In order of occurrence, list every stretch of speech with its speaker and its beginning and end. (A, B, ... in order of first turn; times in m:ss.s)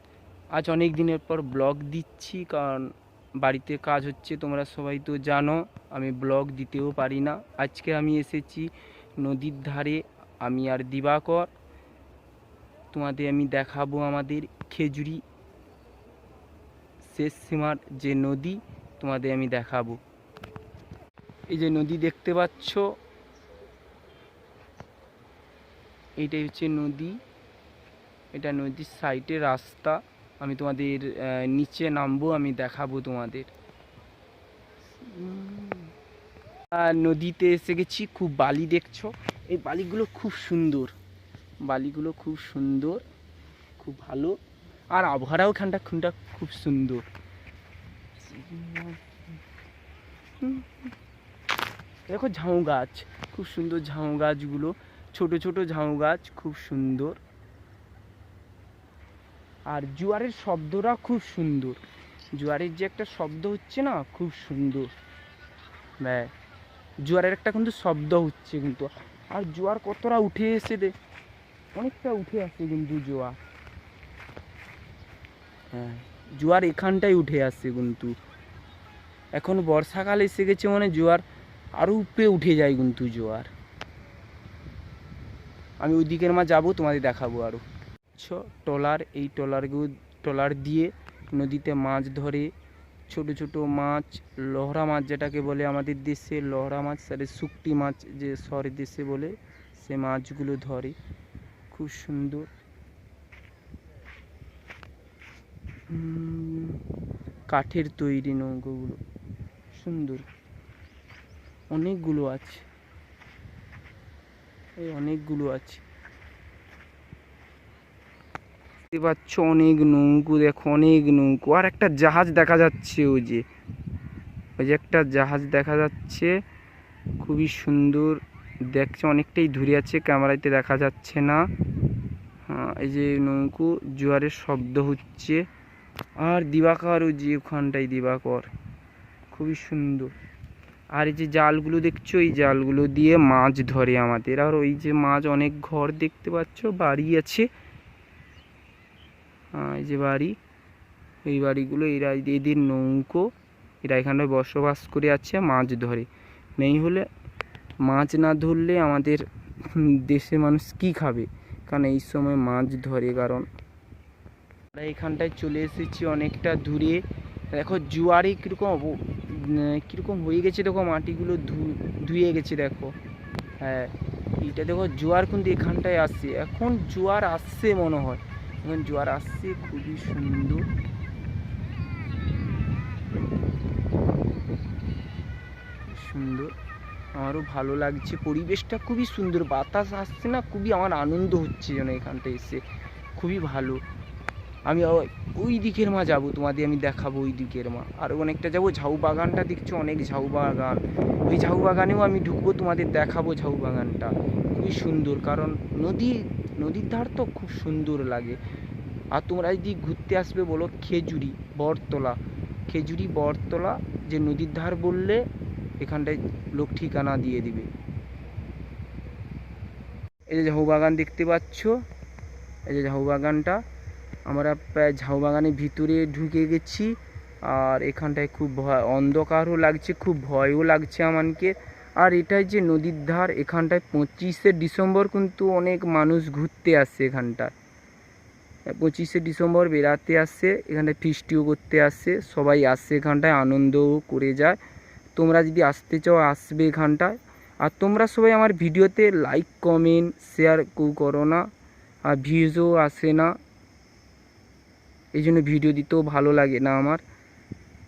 0:00.5-0:11.5 A
0:12.9-0:15.2 A
0:17.0-0:20.0 A
0:21.5-0:23.0 A
0:26.2-0:27.2 A
0:28.3-0:33.5 A
0:35.0-0:35.9 A
0:36.7-0:40.9 A
0:41.6-0:43.0 A
0:43.8-0:44.4 A
0:44.9-0:47.0 A
0:48.2-0:49.0 A
0:50.4-0:50.9 A
0:52.1-0:57.2 A
0:59.7-1:01.8 A
1:02.3-1:04.9 A
1:06.0-1:06.3 A
1:07.0-1:10.9 A
1:11.7-1:13.4 A
1:15.7-1:18.1 A
1:19.3-1:21.2 A
1:21.8-1:23.5 A
1:25.8-1:32.5 A
1:33.1-1:40.9 A
1:41.7-1:42.5 A
1:45.9-1:46.8 A
1:47.5-1:49.0 A
1:49.7-1:50.2 A
1:51.7-1:52.6 A
1:54.8-1:55.8 A
1:58.9-2:03.4 A
2:04.6-2:06.4 A
2:07.2-2:11.5 A
2:12.4-2:15.4 A
2:16.2-2:18.5 A
2:19.3-2:20.1 A
2:20.9-2:27.5 A
2:29.5-2:30.4 A
2:31.2-2:37.1 A
2:37.8-2:43.5 A
2:44.7-2:52.9 A
2:53.6-3:00.6 A
3:05.8-3:06.5 A
3:07.1-3:12.6 A
3:13.2-3:13.8 A
3:14.6-3:28.4 A
3:29.1-3:35.2 A
3:35.8-3:37.7 A
3:40.3-3:41.8 A
3:42.7-3:43.6 A
3:44.2-3:57.5 A
3:58.7-4:04.6 A
4:05.1-4:11.5 A
4:12.0-4:13.3 A
4:15.1-4:17.0 A